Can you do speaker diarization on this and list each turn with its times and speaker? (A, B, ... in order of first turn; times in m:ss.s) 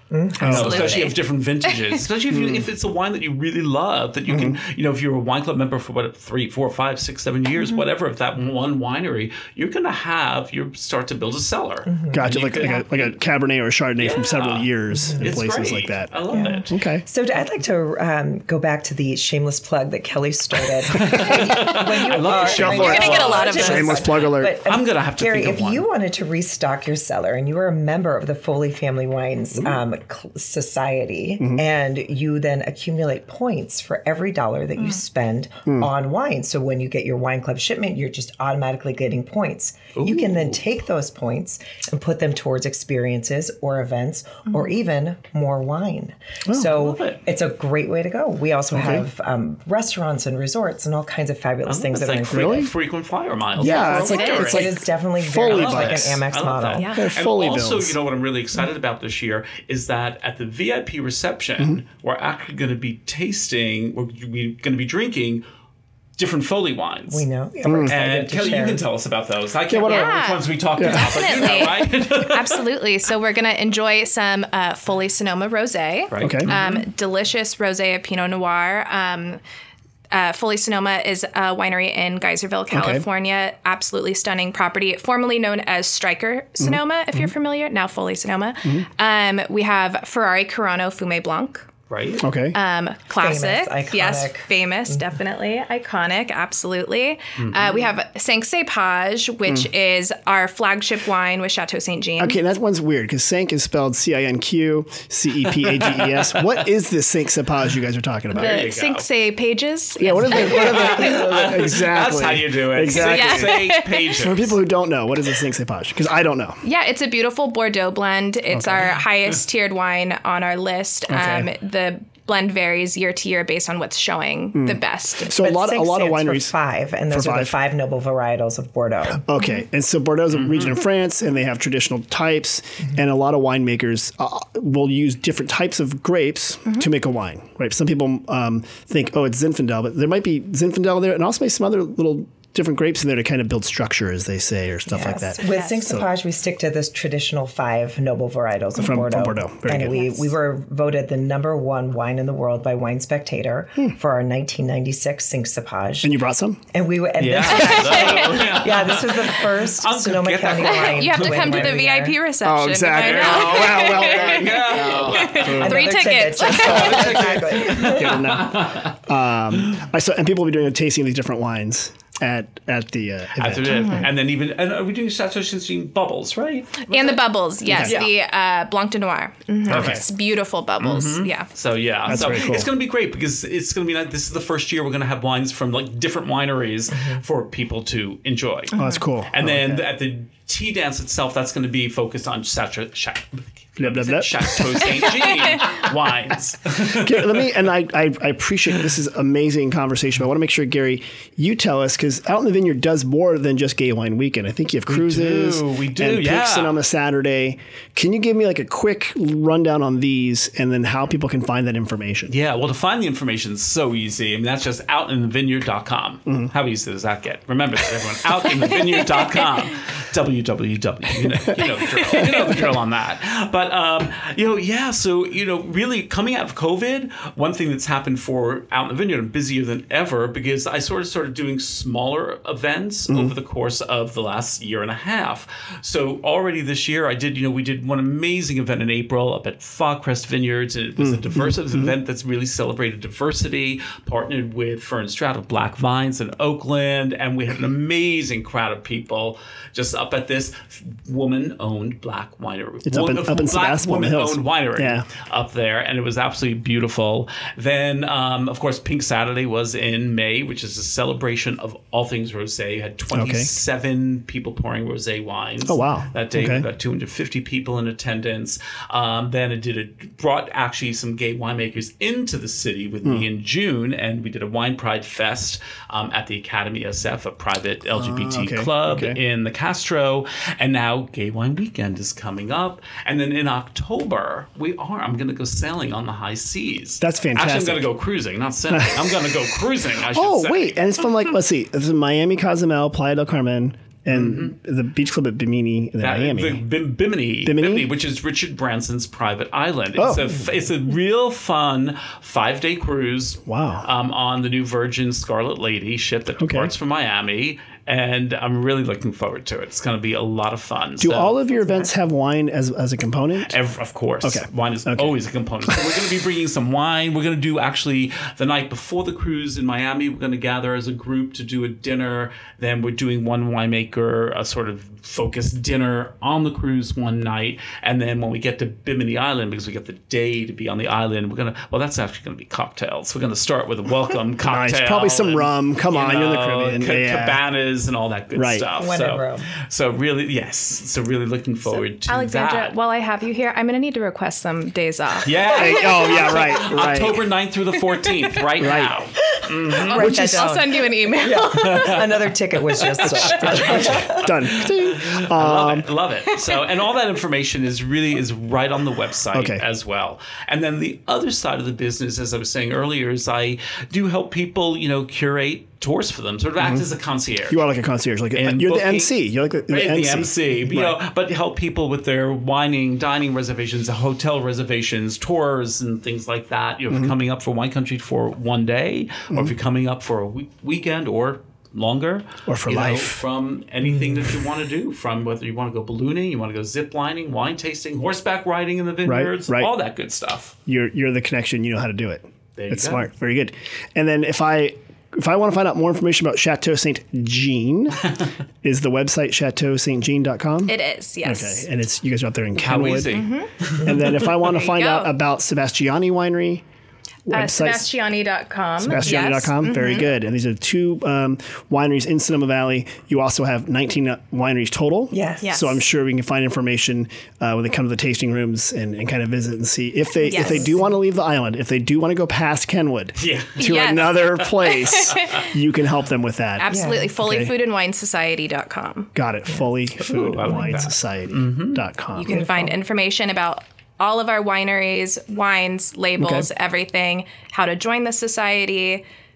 0:00.1-0:01.0 A
0:00.4-0:01.2 B
0:00.4-0:13.1 C
0:00.4-0:01.0 D
0:01.7-0:01.9 B
0:02.3-0:02.7 D
0:04.3-0:04.6 D
0:11.8-0:12.3 A
0:12.1-0:16.1 D
0:14.0-0:14.7 C
0:14.9-0:15.4 A
0:15.2-0:16.7 C
0:16.3-0:52.7 A
0:16.7-0:17.0 D
0:20.9-0:23.9 C
0:22.4-0:24.1 B
0:22.4-0:24.6 D
0:24.6-0:25.9 C
0:31.4-0:31.6 D
0:40.0-0:40.6 C
0:46.7-0:47.2 C
0:48.7-0:49.0 D
0:51.7-0:54.7 C
0:52.3-0:52.7 D
0:53.6-0:56.2 D
0:53.6-0:56.9 A
0:53.7-0:54.6 B
0:55.4-1:05.4 C
0:56.8-0:57.1 B
0:56.9-0:58.0 D
1:06.2-1:07.2 C
1:07.1-1:08.8 A
1:07.6-1:08.0 D
1:07.8-1:12.6 C
1:09.7-1:10.2 D
1:09.8-1:19.4 B
1:10.8-1:11.3 D
1:16.1-1:16.8 C
1:16.2-1:16.5 D
1:20.1-1:31.7 B
1:22.7-1:23.0 D
1:26.6-1:27.3 D
1:31.9-1:32.2 C
1:32.2-1:32.6 D
1:32.5-1:42.4 B
1:33.1-1:35.1 A
1:37.4-1:37.9 C
1:42.2-1:48.7 D
1:45.6-1:46.5 C
1:48.3-1:49.1 C
1:48.3-1:51.1 B
1:50.0-1:56.6 D
1:50.1-1:50.8 A
1:50.2-1:54.6 C
1:52.9-1:54.1 B
1:56.6-2:05.4 B
1:58.5-1:58.9 D
2:01.1-2:01.5 D
2:04.5-2:06.5 D
2:05.3-2:09.2 A
2:07.1-2:07.5 D
2:09.1-2:26.0 D
2:10.3-2:10.8 C
2:24.9-2:36.2 A
2:25.4-2:25.7 B
2:28.8-2:30.1 D
2:36.0-2:36.6 D
2:36.7-2:42.2 A
2:37.2-2:41.8 C
2:37.5-2:38.4 B
2:40.6-2:47.4 B
2:42.4-2:45.9 D
2:42.9-2:45.8 C
2:45.6-2:48.3 A
2:46.4-2:48.9 C
2:47.6-2:54.1 D
2:53.4-2:58.1 C
2:53.7-2:54.0 B
2:56.9-3:01.5 B
2:57.7-2:58.0 D
2:59.7-3:00.0 C
2:59.7-3:00.0 D
3:00.8-3:17.4 C
3:02.0-3:02.7 D
3:08.7-3:09.9 D
3:08.7-3:09.0 B
3:13.8-3:14.9 D
3:15.1-3:15.6 B
3:16.9-3:32.3 D
3:24.9-3:26.8 C
3:32.3-4:50.8 C
3:41.4-3:42.8 D
3:53.1-3:53.3 D
4:01.0-4:01.9 D
4:12.8-4:15.0 D
4:23.1-4:23.5 D
4:25.6-4:26.6 D
4:38.0-4:39.2 D
4:47.0-4:47.9 D
4:48.7-4:49.3 D
4:50.1-4:56.6 D
4:54.1-4:54.5 C
4:56.0-5:11.3 C
4:57.4-4:57.9 D
5:00.0-5:00.4 D
5:03.4-5:03.9 D
5:06.4-5:06.7 D
5:11.0-5:13.5 D
5:11.6-5:11.8 A
5:13.4-5:42.7 C
5:14.2-5:15.1 D
5:34.4-5:37.4 D
5:38.3-5:38.7 D
5:38.8-5:39.5 A
5:41.7-5:46.6 B
5:45.2-5:50.1 C
5:45.5-5:47.2 D
5:47.8-5:48.4 B
5:48.6-5:49.0 D
5:49.3-5:54.3 A
5:49.8-5:52.1 B
5:49.9-5:50.5 D
5:51.5-5:52.1 C
5:52.8-5:53.3 B
5:53.0-5:55.9 D
5:53.3-6:07.6 C
5:59.3-5:59.6 D
6:06.6-6:06.9 D
6:07.5-6:11.0 D
6:08.3-6:09.1 C
6:09.7-6:30.5 C
6:22.5-6:23.2 D
6:29.0-6:29.7 D
6:30.6-6:38.1 D
6:32.6-6:33.1 C
6:38.6-6:43.2 D
6:40.7-6:41.6 B
6:42.6-6:44.2 C
6:43.1-6:45.1 B
6:43.8-6:46.6 D
6:47.2-6:47.9 D
6:47.3-6:50.1 B
6:48.8-7:07.5 D
6:55.1-6:55.6 A
6:55.4-6:55.8 B
7:00.2-7:00.8 B
7:00.3-7:00.9 A
7:03.2-7:03.6 C
7:03.6-7:05.5 B
7:04.7-7:05.3 C
7:06.6-7:09.1 B
7:06.7-7:07.1 A
7:09.1-7:12.4 D
7:10.0-7:11.8 C
7:12.1-7:19.0 B
7:12.3-7:12.7 A
7:16.2-7:16.5 D